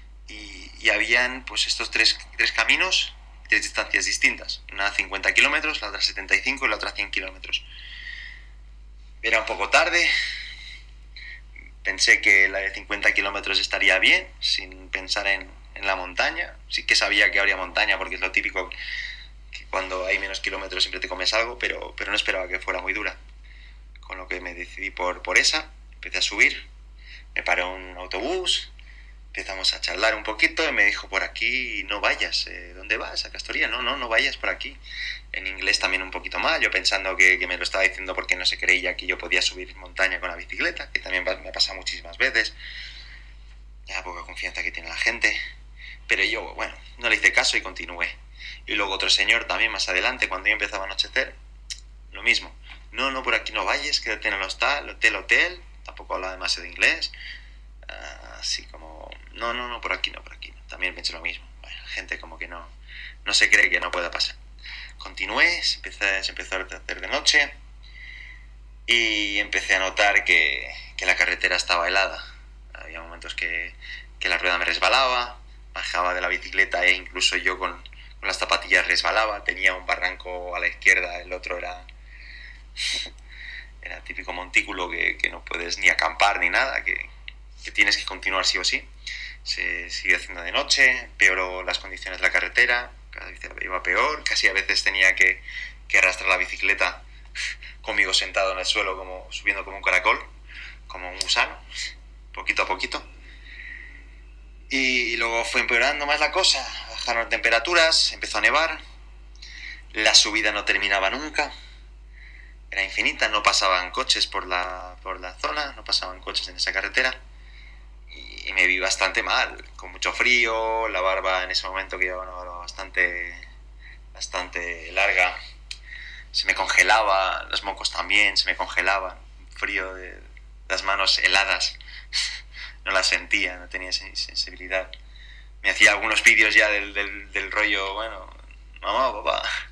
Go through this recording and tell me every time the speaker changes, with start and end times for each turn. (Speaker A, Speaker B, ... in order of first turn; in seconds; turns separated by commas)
Speaker A: 0.3-7.7, Speaker A: 9.2-10.1, Speaker A: 11.8-18.7, Speaker A: 19.5-23.2, Speaker A: 24.0-26.7, Speaker A: 27.3-28.7, Speaker A: 29.3-34.8, Speaker A: 35.3-42.6, Speaker A: 43.9-45.4, Speaker A: 46.1-51.4, Speaker A: 52.1-57.1, Speaker A: 57.9-62.7, Speaker A: 63.2-64.4, Speaker A: 65.0-67.5, Speaker A: 68.9-72.2, Speaker A: 72.7-81.9, Speaker A: 82.8-83.1, Speaker A: 83.8-87.1, Speaker A: 87.6-88.9, Speaker A: 89.4-97.0, Speaker A: 97.8-100.3, Speaker A: 100.9-101.6, Speaker A: 102.3-103.1, Speaker A: 104.7-108.8, Speaker A: 109.9-111.5, Speaker A: 112.7-117.2, Speaker A: 118.1-123.4, Speaker A: 124.1-125.4, Speaker A: 126.3-131.8, Speaker A: 132.8-134.9, Speaker A: 135.6-139.5